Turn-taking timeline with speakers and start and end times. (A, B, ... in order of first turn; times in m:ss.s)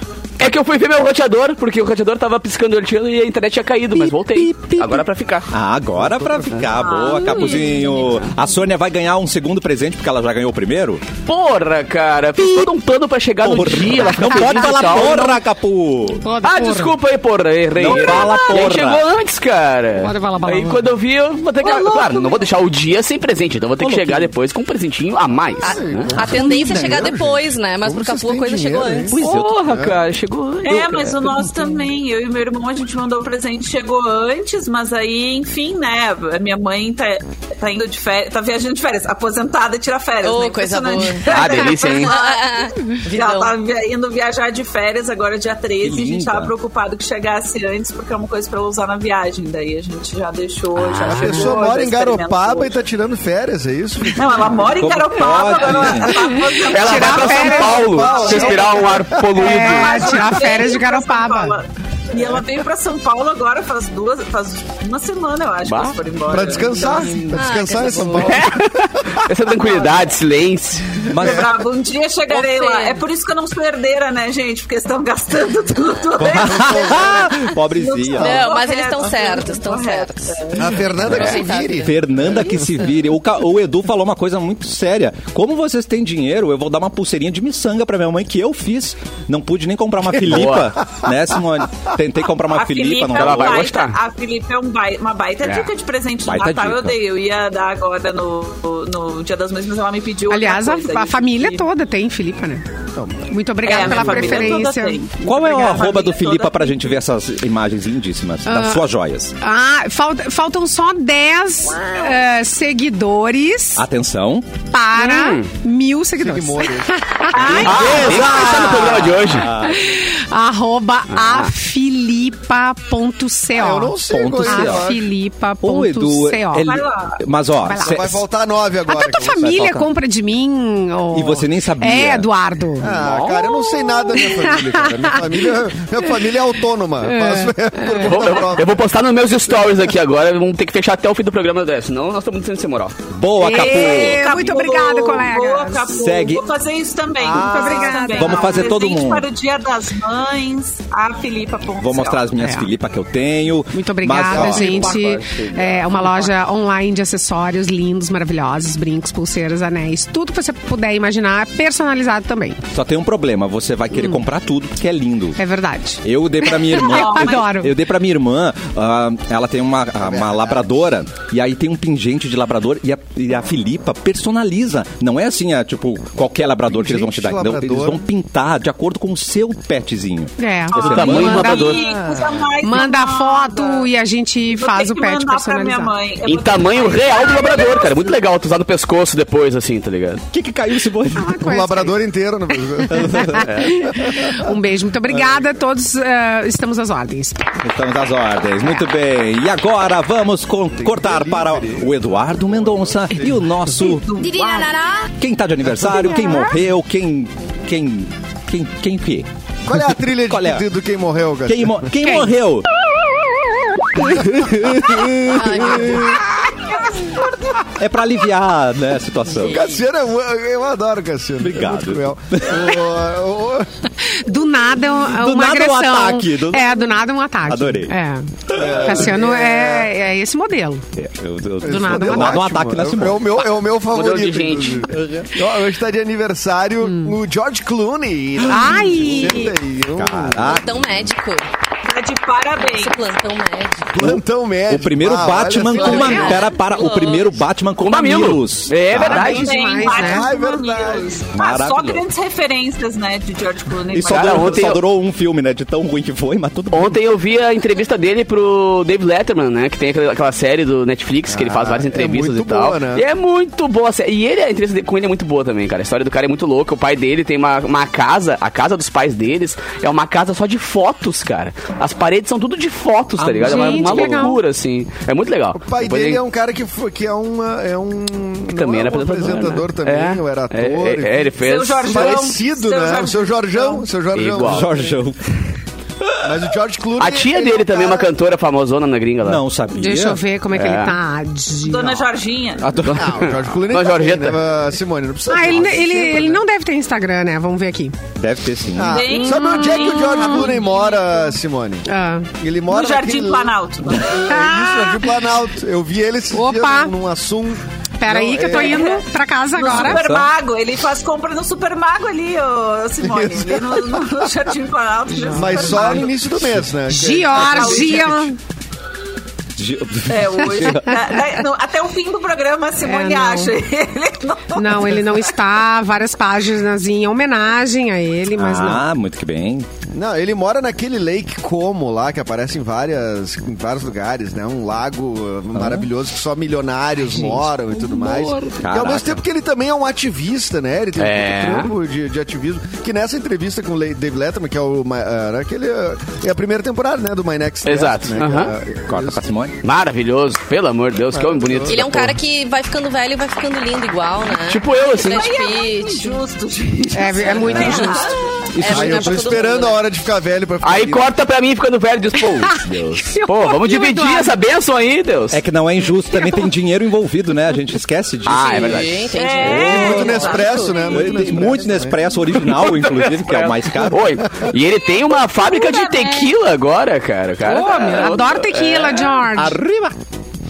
0:00.4-0:05.5 A
0:04.0-0:11.0 B
0:06.7-0:07.8 C
0:11.2-0:15.4 A
0:12.4-0:12.7 B
0:13.4-0:16.3 B
0:16.2-0:17.0 D
0:16.4-0:26.1 A
0:17.7-0:19.0 B
0:20.0-0:20.9 D
0:23.8-0:24.3 B
0:25.6-0:29.2 E
0:25.6-0:30.0 F
0:26.2-0:27.1 B
0:29.1-0:29.8 B
0:29.2-0:31.3 A
0:30.6-0:52.8 C
0:40.2-0:43.5 E
0:41.2-0:42.1 A
0:45.8-0:46.5 B
0:51.0-0:54.6 F
0:54.1-1:07.4 C
0:54.8-0:56.1 B
0:56.3-0:58.6 D
0:56.7-1:00.2 A
0:57.2-0:59.5 F
0:59.3-1:01.6 D
1:05.6-1:06.0 A
1:06.3-1:09.2 F
1:07.3-1:08.4 E
1:08.2-1:11.0 A
1:11.1-1:11.6 B
1:11.1-1:11.5 F
1:11.2-1:20.7 C
1:12.3-1:13.0 E
1:16.2-1:18.4 B
1:16.5-1:17.2 F
1:18.2-1:20.5 E
1:20.5-1:22.6 F
1:21.0-1:33.8 B
1:21.0-1:21.4 A
1:21.1-1:21.9 E
1:30.3-1:30.7 A
1:32.5-1:41.7 C
1:33.1-1:34.0 A
1:35.4-1:35.7 A
1:36.3-1:36.9 B
1:40.3-1:42.6 D
1:43.0-1:44.6 F
1:43.3-1:45.0 D
1:43.6-1:47.0 C
1:45.2-1:49.3 B
1:48.4-1:48.8 D
1:49.4-1:53.8 D
1:53.8-1:54.5 B
1:54.7-1:58.5 D
1:55.0-1:55.5 A
1:56.2-1:59.0 F
1:57.3-1:58.3 C
1:57.6-1:59.8 B
1:57.6-1:59.5 A
1:59.6-2:06.7 D
2:01.2-2:01.5 A
2:03.5-2:05.1 F
2:04.1-2:04.9 B
2:05.6-2:08.2 B
2:06.6-2:07.2 C
2:07.6-2:08.1 D
2:07.8-2:09.5 F
2:08.9-2:12.9 D
2:09.4-2:09.9 B
2:11.1-2:12.3 B
2:12.8-2:18.8 F
2:12.8-2:13.6 A
2:14.1-2:15.4 D
2:17.0-2:18.1 D
2:17.9-2:23.0 A
2:23.1-2:24.3 B
2:23.4-2:25.9 D
2:23.4-2:32.3 C
2:25.9-2:26.4 B
2:27.2-2:29.3 B
2:27.3-2:28.6 D
2:31.8-2:36.3 B
2:32.4-2:32.7 D
2:33.7-2:42.6 D
2:34.3-2:35.0 F
2:42.7-2:45.4 B
2:43.9-2:44.2 D
2:45.4-2:47.7 D
2:46.0-3:01.5 B
2:46.7-2:47.7 C
2:50.0-2:50.8 F
2:56.7-2:58.0 F
3:00.4-3:01.8 D
3:00.7-3:01.8 A
3:01.0-3:03.9 C
3:01.9-3:02.3 F
3:02.6-3:05.9 D
3:04.4-3:08.2 C
3:06.2-3:10.2 A
3:10.3-3:11.4 B
3:11.1-3:12.0 D
3:11.4-3:14.4 F
3:12.9-3:13.9 B
3:13.0-3:17.6 D
3:15.1-3:15.4 B
3:17.6-3:24.2 B
3:20.8-3:23.4 F
3:23.8-3:24.9 C
3:24.5-3:24.8 D
3:25.2-3:30.6 B
3:26.1-3:26.5 D
3:29.6-3:32.0 F
3:31.4-3:32.7 B
3:32.0-3:32.3 D
3:34.0-3:36.2 B
3:34.2-3:36.1 F
3:35.3-3:36.2 E
3:36.9-3:37.5 C
3:37.7-3:39.7 B
3:39.5-3:43.7 F
3:41.4-3:42.9 B
3:44.0-3:50.8 D
3:45.0-3:46.9 B
3:47.4-3:47.9 B
3:48.5-3:49.2 B
3:48.5-3:49.9 F
3:50.9-3:53.4 B
3:51.6-4:00.5 F
3:51.6-3:52.4 D
3:53.9-3:54.9 A
3:54.9-3:55.3 B
3:56.8-3:57.2 D
3:58.4-4:01.1 B
3:58.5-3:59.5 D
4:00.4-4:01.5 E
4:01.8-4:03.1 C
4:02.7-4:03.9 E
4:03.9-4:06.5 F
4:04.0-4:09.4 B
4:05.7-4:06.4 D
4:06.0-4:06.5 E
4:06.6-4:07.3 C
4:07.8-4:09.5 A
4:08.9-4:14.8 C
4:09.0-4:10.3 D
4:09.8-4:11.2 F
4:11.3-4:12.0 B
4:13.9-4:17.0 B
4:14.1-4:14.8 A
4:16.7-4:36.2 A
4:21.3-4:23.0 F
4:33.2-4:34.3 B
4:33.4-4:34.4 D
4:35.5-4:45.0 F
4:38.5-4:42.2 A
4:41.4-4:43.8 C
4:44.1-4:44.7 A
4:44.4-4:45.3 B
4:46.0-4:46.4 B
4:46.2-4:48.1 F
4:47.0-4:49.4 A
4:49.2-4:50.2 B
4:49.8-4:52.0 D
4:50.5-4:51.0 A
4:51.6-4:52.7 C
4:52.6-4:53.3 B
4:52.8-4:54.4 A
4:52.9-4:56.4 F
4:55.3-4:57.9 D
4:58.2-4:59.0 B
4:58.7-5:01.8 F
4:58.8-5:01.2 C
4:59.1-5:00.6 D
5:01.8-5:02.3 D
5:02.4-5:08.8 F
5:02.7-5:04.3 C
5:04.2-5:05.2 D
5:06.3-5:06.9 D
5:08.0-5:10.1 D
5:08.5-5:16.3 C
5:09.7-5:10.3 B
5:13.0-5:14.0 F
5:15.2-5:16.1 D
5:15.3-5:18.1 F
5:16.9-5:18.4 D
5:17.3-5:18.3 C
5:19.6-5:20.9 B
5:20.1-5:25.2 C
5:22.8-5:23.5 D
5:24.5-5:28.8 D
5:28.4-5:29.7 B
5:29.9-5:49.2 F
5:35.5-5:35.9 B
5:37.7-5:38.5 A
5:38.6-5:39.2 B
5:41.0-5:41.7 A
5:47.6-5:48.5 A
5:48.9-5:49.6 B
5:49.6-5:52.2 A
5:51.1-5:51.9 F
5:51.7-5:56.2 E
5:54.5-5:55.3 A
5:55.0-5:58.5 C
5:56.9-5:58.2 D
5:57.4-5:57.8 F
5:58.5-5:59.1 B
5:58.6-5:59.8 E
5:58.6-6:01.1 F
6:00.6-6:05.4 A
6:03.0-6:04.3 D
6:05.3-6:08.9 B
6:08.2-6:09.0 A
6:08.3-6:10.7 E
6:09.1-6:11.2 C
6:09.4-6:12.0 F
6:09.4-6:10.1 B
6:10.9-6:14.2 B
6:12.4-6:19.2 A
6:15.3-6:16.3 C
6:17.4-6:19.6 D
6:19.3-6:20.0 B